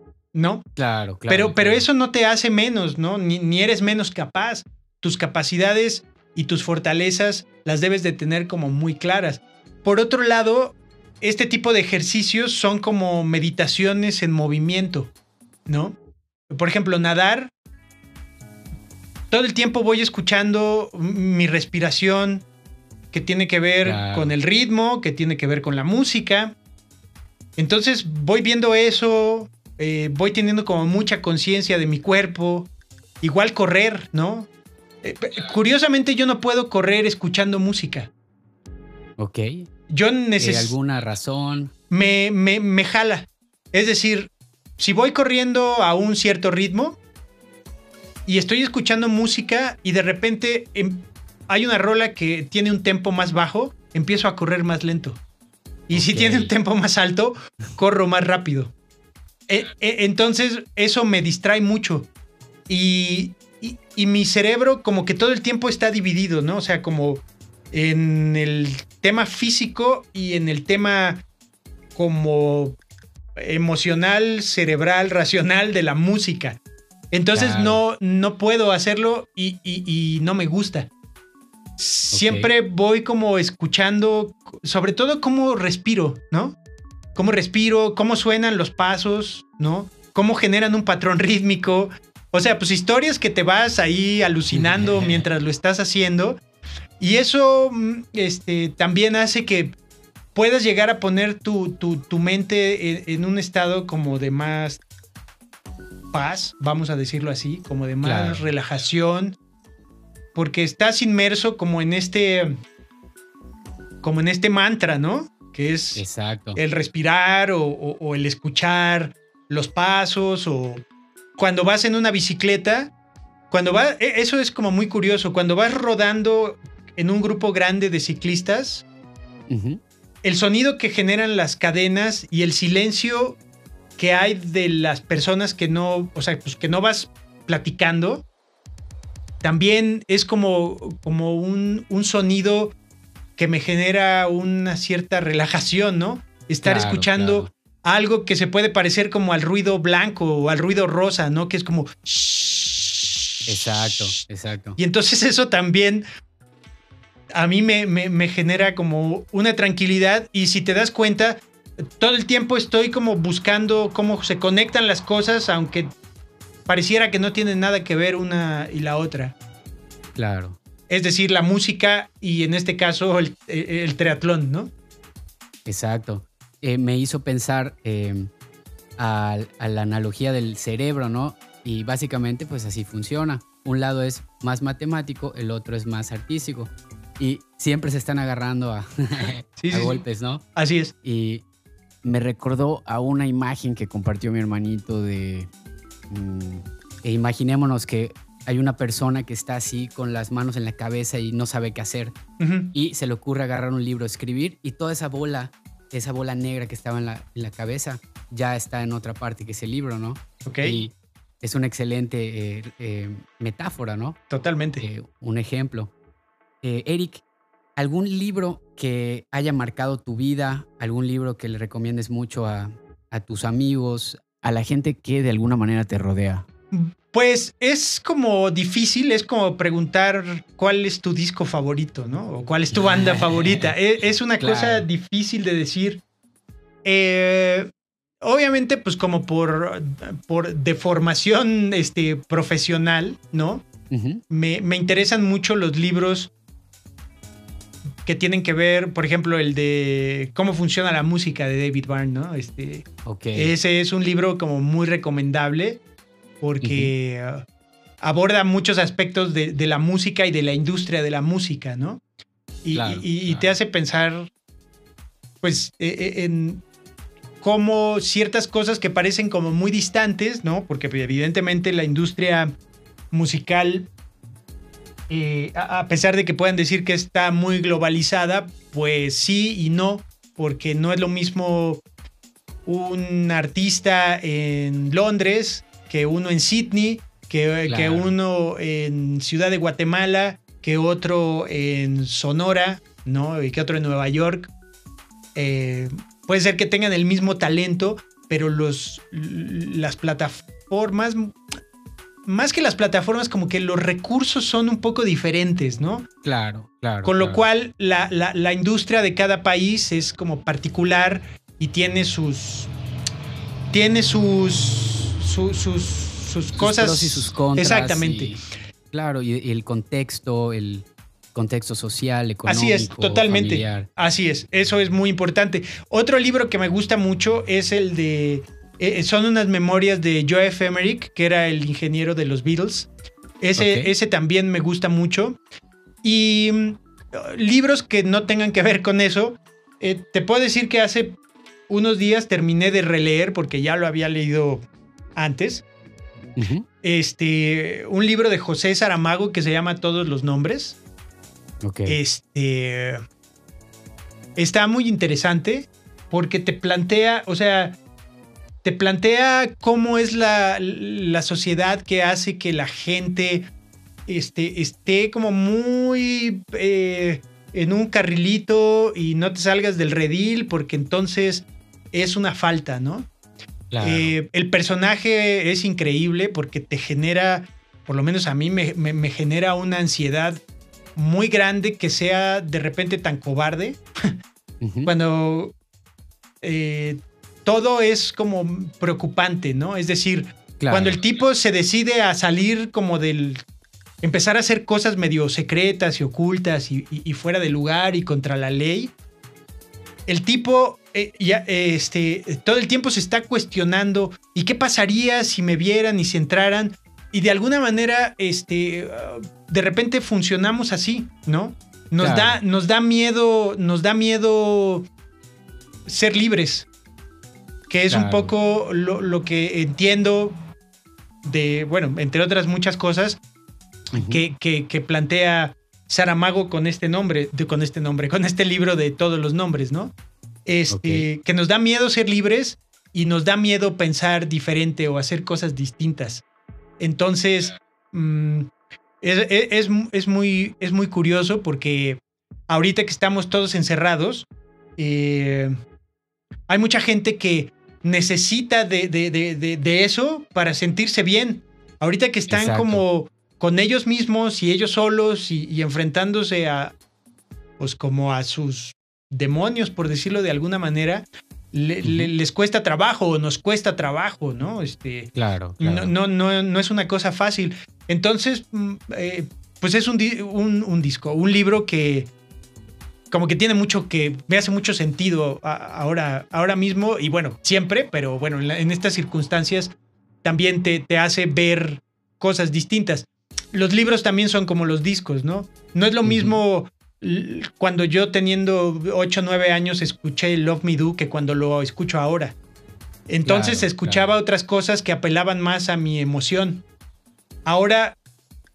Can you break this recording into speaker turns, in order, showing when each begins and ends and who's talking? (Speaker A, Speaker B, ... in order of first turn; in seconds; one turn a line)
Speaker A: 0.3-0.7
Speaker B: 0.8-1.8
Speaker A: 1.3-15.1
Speaker A: 15.7-15.9
Speaker A: 16.5-17.5
Speaker A: 19.3-22.4
Speaker A: 23.1-26.5
Speaker B: 23.8-24.3
Speaker A: 27.6-32.7
Speaker A: 33.2-34.5
Speaker A: 35.0-38.1
Speaker B: 39.2-39.7
Speaker A: 39.9-40.7
Speaker B: 40.4-41.7
Speaker A: 41.9-47.0
Speaker A: 48.2-55.2
Speaker A: 55.9-58.7
Speaker B: 55.9-56.5
Speaker A: 59.5-62.1
Speaker A: 62.7-71.2
Speaker A: 71.9-72.8
Speaker A: 73.3-76.6
Speaker A: 77.1-80.9
Speaker B: 77.3-77.8
Speaker A: 81.8-86.5
Speaker B: 82.1-82.5
Speaker A: 87.1-96.4
Speaker B: 94.5-95.2
Speaker A: 97.0-99.7
Speaker A: 100.3-104.8
Speaker A: 106.1-109.4
Speaker B: 108.0-108.5
Speaker A: 110.3-112.5
Speaker A: 114.0-120.8
Speaker B: 116.0-116.6
Speaker A: 121.4-122.9
Speaker A: 123.5-128.8
Speaker B: 129.5-129.8
Speaker A: 130.2-133.4
Speaker A: 134.0-138.2
Speaker A: 139.4-142.7
Speaker A: 143.4-154.1
Speaker B: 146.6-147.5
Speaker B: 153.4-154.8
Speaker A: 154.8-156.0
Speaker A: 157.3-165.9
Speaker A: 166.7-169.3
Speaker B: 170.2-170.6
Speaker A: 170.9-174.7
Speaker B: 175.7-178.3
Speaker B: 179.0-190.4
Speaker A: 189.6-190.0
Speaker A: 190.6-190.9
Speaker B: 191.0-191.4
Speaker B: 192.0-195.5
Speaker B: 196.1-202.2
Speaker A: 202.4-202.7
Speaker B: 202.7-214.2
Speaker A: 210.4-210.8
Speaker A: 214.3-214.8
Speaker B: 214.8-215.9
Speaker B: 216.6-217.2
Speaker B: 217.8-226.4
Speaker A: 226.7-236.0
Speaker B: 232.8-233.7
Speaker B: 234.4-234.8
Speaker A: 236.8-237.7
Speaker A: 238.2-243.6
Speaker B: 243.9-244.2
Speaker A: 244.3-246.3
Speaker A: 248.0-255.8
Speaker B: 253.0-253.5
Speaker A: 256.4-257.4
Speaker B: 256.6-256.9
Speaker A: 258.0-262.0
Speaker A: 262.6-264.3
Speaker B: 262.7-263.5
Speaker A: 265.4-266.6
Speaker A: 267.4-272.5
Speaker A: 273.1-273.9
Speaker A: 275.1-281.8
Speaker A: 282.6-294.5
Speaker B: 287.7-288.1
Speaker A: 295.3-301.4
Speaker A: 302.2-306.1
Speaker B: 306.2-307.4
Speaker A: 307.0-312.7
Speaker A: 313.7-318.4
Speaker B: 316.6-323.9
Speaker A: 322.4-332.9
Speaker A: 333.4-335.4
Speaker B: 333.6-333.9
Speaker A: 336.0-341.2
Speaker A: 341.7-345.6
Speaker B: 346.4-346.6
Speaker A: 346.8-350.8
Speaker B: 351.6-352.0
Speaker A: 351.9-353.0
Speaker A: 354.4-357.8
Speaker A: 358.6-363.4
Speaker A: 364.1-373.1
Speaker B: 373.7-374.1
Speaker A: 373.8-380.4
Speaker A: 380.9-384.1
Speaker B: 384.6-384.9
Speaker A: 384.8-385.5
Speaker A: 386.4-393.4
Speaker B: 390.6-391.0
Speaker A: 394.0-398.9
Speaker A: 400.1-414.9
Speaker B: 412.0-412.4
Speaker A: 415.9-416.7
Speaker A: 417.7-420.4
Speaker B: 417.9-418.3
Speaker A: 421.2-423.2
Speaker B: 423.9-424.2
Speaker A: 423.9-429.9
Speaker A: 430.4-436.2
Speaker B: 430.7-431.1
Speaker A: 436.8-444.2
Speaker A: 444.8-445.5
Speaker A: 446.5-456.7
Speaker B: 452.3-452.8
Speaker A: 457.6-472.1
Speaker B: 461.8-462.1
Speaker B: 465.1-465.9
Speaker A: 473.1-492.3
Speaker B: 486.0-486.4
Speaker A: 493.1-496.6
Speaker B: 493.2-494.1
Speaker A: 497.4-498.0